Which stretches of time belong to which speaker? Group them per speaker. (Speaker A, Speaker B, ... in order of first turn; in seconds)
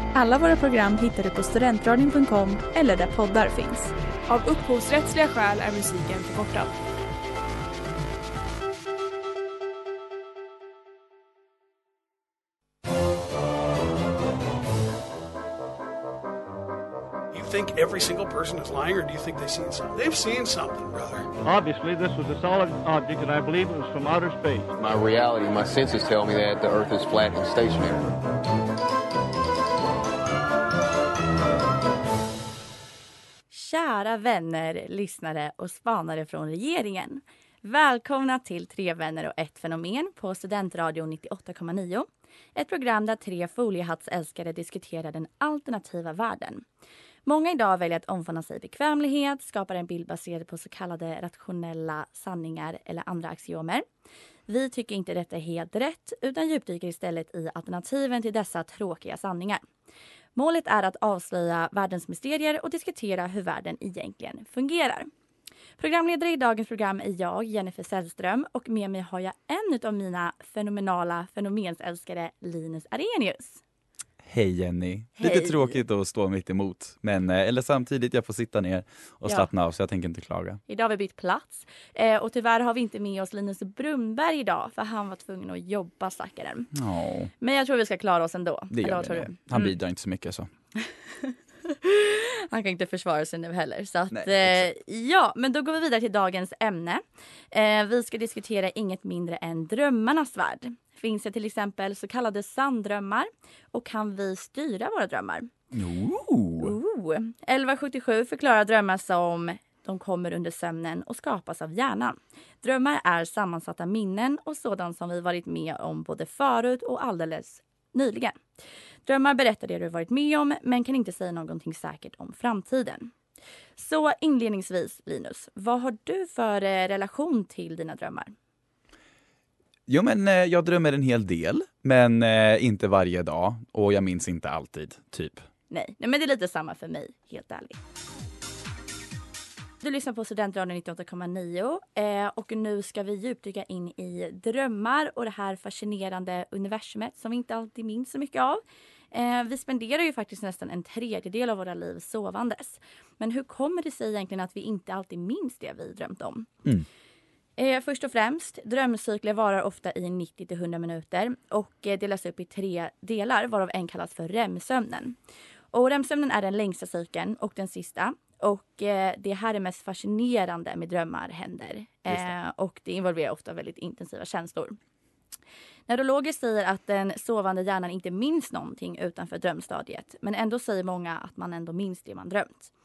Speaker A: 0.1-3.9
Speaker B: 4.3-6.8
Speaker C: 17.3-21.3
Speaker D: 21.4-24.7
Speaker E: 24.8-28.1
Speaker F: 33.5-46.6, 47.3-53.9, 54.5-59.6, 60.4-65.1, 65.8-73.6, 75.2-75.8, 80.7-86.7, 87.4-89.7, 90.8-105.5, 106.6-118.4, 119.1-123.1, 123.8-128.3, 135.7-137.8, 139.8-156.5, 157.6-165.2, 165.7-174.8, 175.9-182.7
Speaker G: 74.2-80.6, 86.7-87.3, 88.7-90.5, 94.1-94.7, 105.7-106.8, 129.9-135.4